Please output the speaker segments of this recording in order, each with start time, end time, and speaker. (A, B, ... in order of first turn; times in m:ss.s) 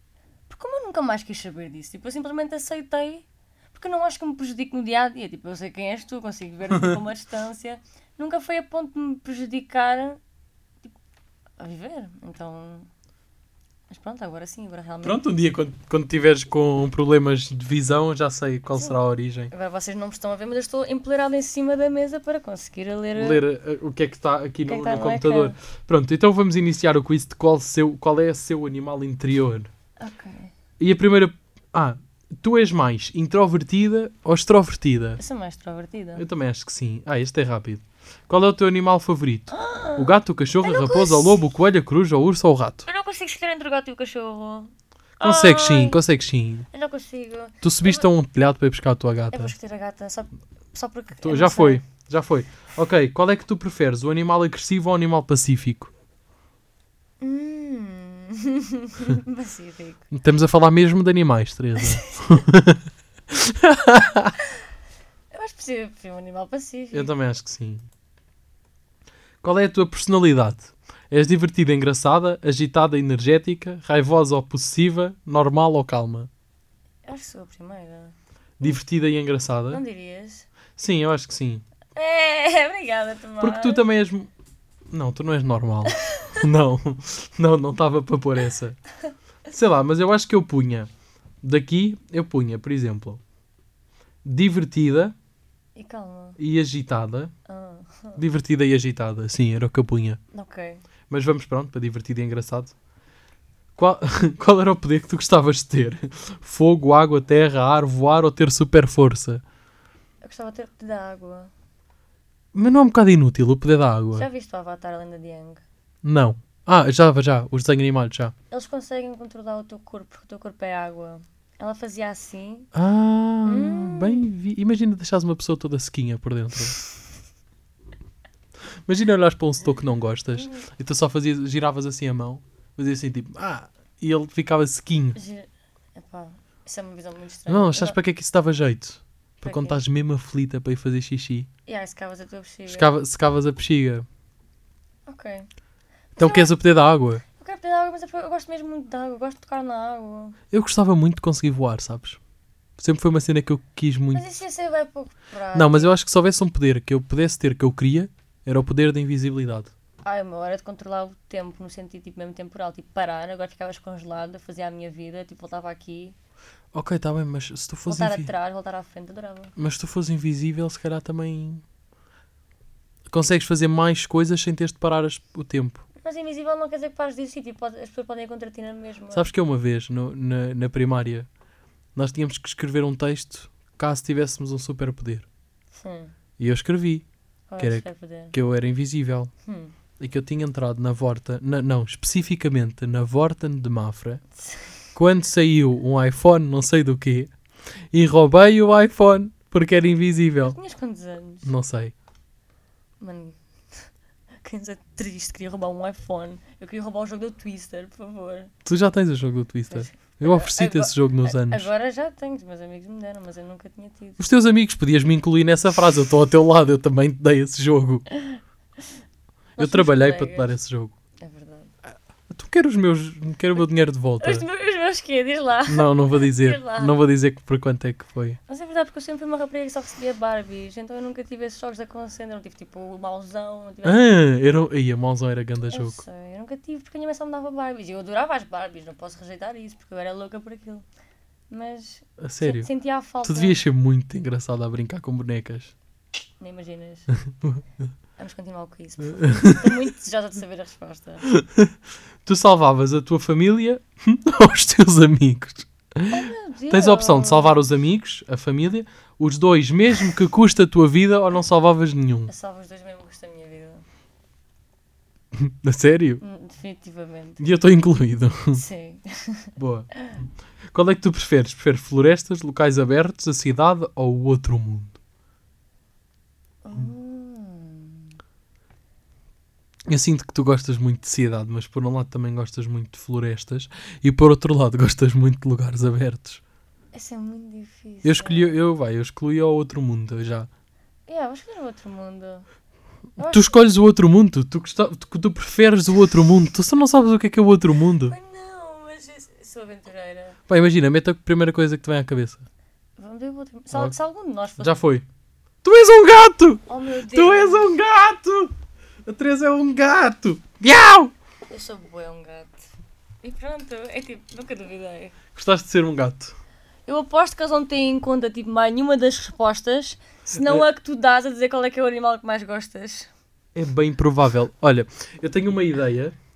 0:00.5-0:10.2 A
0:11.6-0:12.9 A
0:13.9-0:15.2 A
0:15.0-0:19.5 B
0:18.8-0:23.4 A
0:23.2-0:29.7 B
0:24.6-0:25.5 A
0:30.0-0:30.5 A
0:30.8-0:35.2 B
0:35.2-0:36.2 A
0:36.2-0:42.8 B
0:39.5-0:41.4 A
0:42.8-0:46.0 A
0:45.2-0:46.7 B
0:46.7-0:48.0 A
0:47.6-0:49.5 B
0:49.3-0:51.8 A
0:51.2-0:55.9 B
0:57.2-1:00.1 A
1:00.1-1:04.4 B
1:01.8-1:02.4 A
1:05.3-1:07.1 A
1:06.9-1:07.9 B
1:09.4-1:16.3 B
1:17.0-1:18.1 A
1:18.6-1:19.8 B
1:19.7-1:20.5 A
1:20.8-1:21.6 B
1:21.9-1:23.8 A
1:23.4-1:24.3 B
1:24.9-1:28.8 B
1:29.5-1:30.9 B
1:31.4-1:33.2 B
1:34.2-1:35.1 B
1:35.8-1:36.4 A
1:36.4-1:37.3 B
1:37.5-1:38.2 A
1:38.2-1:40.2 B
1:40.3-1:40.8 A
1:41.1-1:42.7 B
1:43.8-1:49.4 B
1:50.2-1:51.5 A
1:52.5-1:54.3 B
1:54.1-1:55.6 A
1:56.0-1:58.3 B
1:58.5-2:02.7 A
2:02.7-2:06.8 B
2:03.4-2:04.2 A
2:08.8-2:15.2 B
2:10.4-2:10.6 A
2:15.1-2:18.0 A
2:17.5-2:21.5 B
2:19.4-2:19.8 A
2:21.6-2:22.9 A
2:22.7-2:24.0 B
2:25.1-2:25.5 A
2:26.2-2:26.5 A
2:26.2-2:27.2 B
2:27.3-2:30.4 A
2:30.5-2:32.2 B
2:32.8-2:34.3 B
2:34.1-2:35.9 A
2:35.5-2:39.7 B
2:40.0-2:46.1 A
2:46.7-2:48.3 B
2:47.8-2:49.5 A
2:49.6-2:51.6 B
2:53.1-2:55.8 B
2:56.0-2:59.3 A
2:59.1-3:01.3 B
3:01.9-3:05.3 B
3:05.7-3:06.1 A
3:06.4-3:07.0 B
3:07.5-3:08.3 A
3:07.6-3:09.3 B
3:09.4-3:09.7 A
3:10.0-3:14.2 B
3:14.4-3:14.7 A
3:14.9-3:17.3 B
3:17.9-3:20.6 B
3:20.4-3:21.5 A
3:21.4-3:21.9 B
3:23.0-3:23.9 A
3:24.4-3:28.5 A
3:28.6-3:31.7 B
3:29.7-3:34.2 A
3:34.2-3:38.0 B
3:38.1-3:38.4 A
3:39.6-3:40.5 A
3:39.6-3:40.9 B
3:41.2-3:41.7 A
3:42.3-3:44.4 B
3:44.2-3:47.0 A
3:45.7-3:48.4 B
3:48.5-3:54.1 A
3:53.8-3:56.0 B
3:55.7-4:00.8 A
4:01.5-4:03.6 A
4:02.2-4:02.7 B
4:03.2-4:05.7 B
4:06.4-4:07.1 A
4:07.2-4:07.9 B
4:08.2-4:11.3 A
4:09.1-4:09.8 B
4:11.3-4:11.7 B
4:12.2-4:22.3 B
4:16.1-4:17.6 A
4:22.3-4:23.8 A
4:25.3-4:26.2 B
4:26.2-4:27.4 A
4:27.4-4:28.6 B
4:28.5-4:30.2 A
4:29.6-4:29.9 B
4:30.7-4:35.0 B
4:36.6-4:38.1 A
4:39.9-4:46.4 B
4:46.9-4:48.6 A
4:48.0-4:50.5 B
4:51.1-4:52.4 A
4:53.2-4:53.5 A
4:53.2-4:58.2 B
4:58.0-5:00.4 A
5:00.5-5:02.4 B
5:03.0-5:04.7 A
5:04.6-5:05.0 B
5:05.6-5:08.5 B
5:06.7-5:07.7 A
5:09.0-5:11.1 B
5:11.5-5:12.6 A
5:13.2-5:15.2 A
5:15.3-5:16.3 B
5:16.8-5:23.1 A
5:20.3-5:20.6 B
5:23.5-5:26.1 B